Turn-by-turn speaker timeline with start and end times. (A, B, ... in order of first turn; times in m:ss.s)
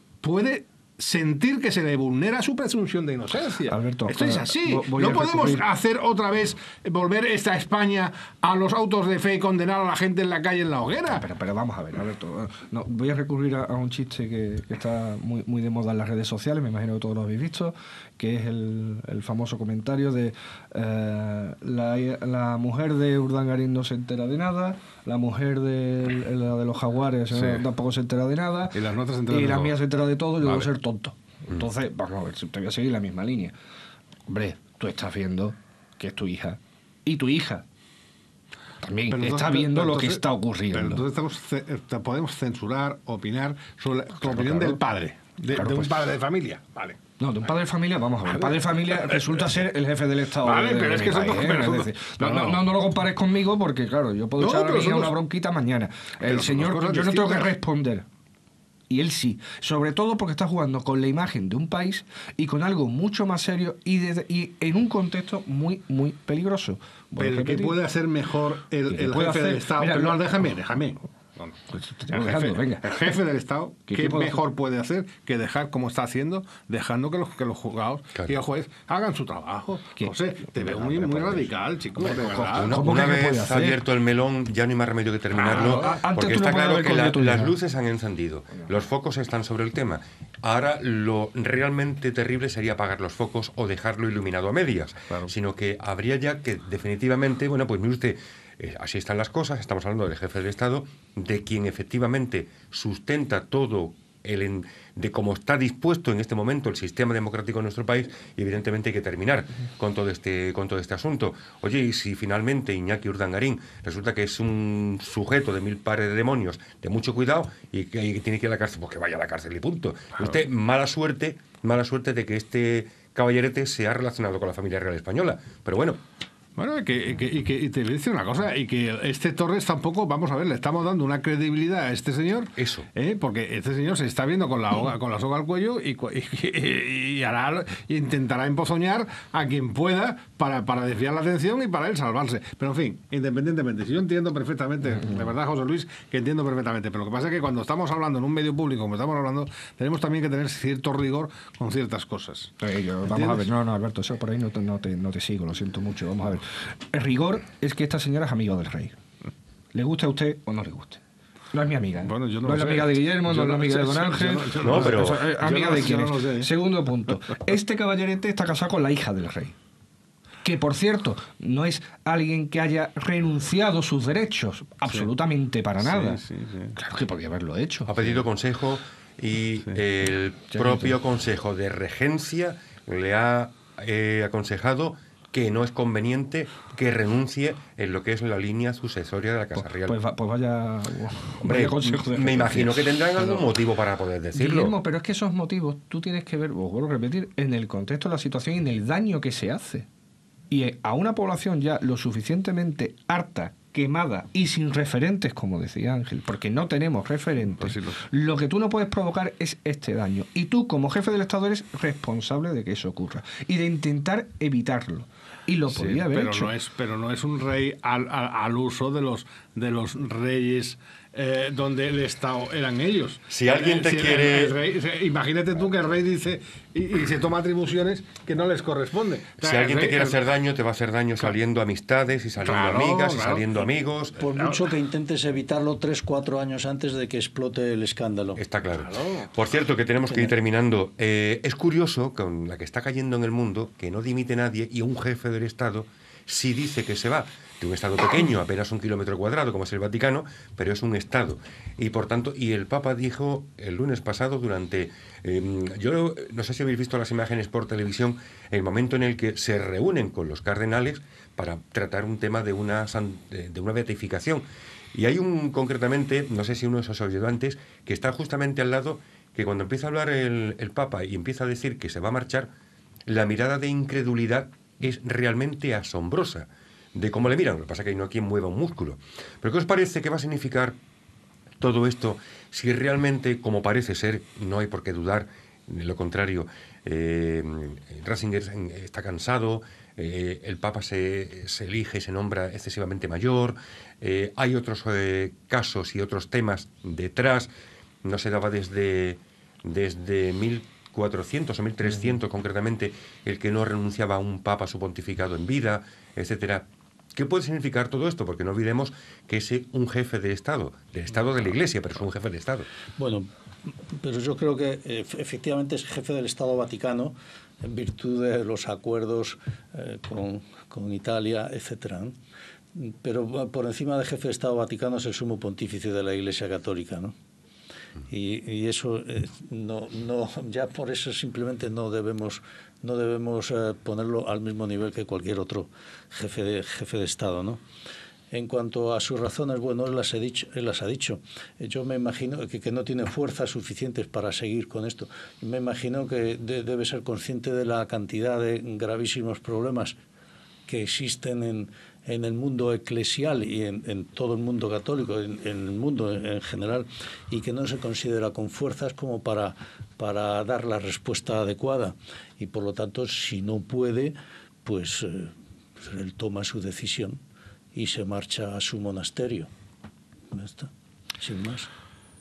0:00.2-0:11.2 A
0:03.7-0:05.7 B
0:11.1-0:33.5 B
0:27.3-0:27.6 A
0:28.7-0:29.8 A
0:34.3-0:37.6 B
0:38.8-0:41.0 B
0:39.1-0:47.0 A
0:44.2-0:44.8 B
0:45.5-0:46.0 B
0:47.2-0:58.1 B
0:48.3-0:49.4 A
0:50.4-0:52.6 A
0:54.4-0:55.2 A
0:56.3-0:57.5 A
0:58.9-1:07.8 B
1:07.2-1:22.9 A
1:08.9-1:10.3 B
1:11.7-1:13.2 B
1:13.9-1:14.4 B
1:20.0-1:23.8 B
1:22.1-2:06.0 C
1:25.4-1:26.1 A
1:25.5-1:27.6 B
2:06.6-2:32.5 A
2:12.6-2:12.9 C
2:25.0-2:25.3 B
2:32.6-2:39.0 B
2:33.1-2:33.5 A
2:39.7-2:41.0 B
2:41.5-2:49.6 B
2:42.0-2:46.5 A
2:44.6-2:45.3 C
2:50.4-2:56.2 B
2:55.8-2:56.8 A
2:56.8-2:58.2 B
2:57.9-3:10.0 C
3:00.5-3:01.0 B
3:09.8-3:13.5 B
3:11.4-3:14.7 C
3:14.3-3:19.9 B
3:20.5-3:36.5 B
3:27.6-3:28.0 A
3:35.7-3:50.2 A
3:43.3-3:44.6 C
3:49.4-3:54.2 C
3:52.4-3:53.7 A
3:54.2-3:58.4 D
3:54.3-3:54.7 A
3:58.4-4:32.5 C
3:58.7-3:59.3 A
4:00.1-4:00.3 D
4:33.1-4:40.8 C
4:41.6-4:57.5 C
4:58.0-5:12.7 C
5:13.0-5:13.3 D
5:13.9-5:22.2 D
5:22.8-5:27.2 D
5:28.1-5:37.6 D
5:38.3-5:50.0 D
5:50.7-6:07.2 D
6:07.7-6:09.5 D
6:10.3-6:11.7 D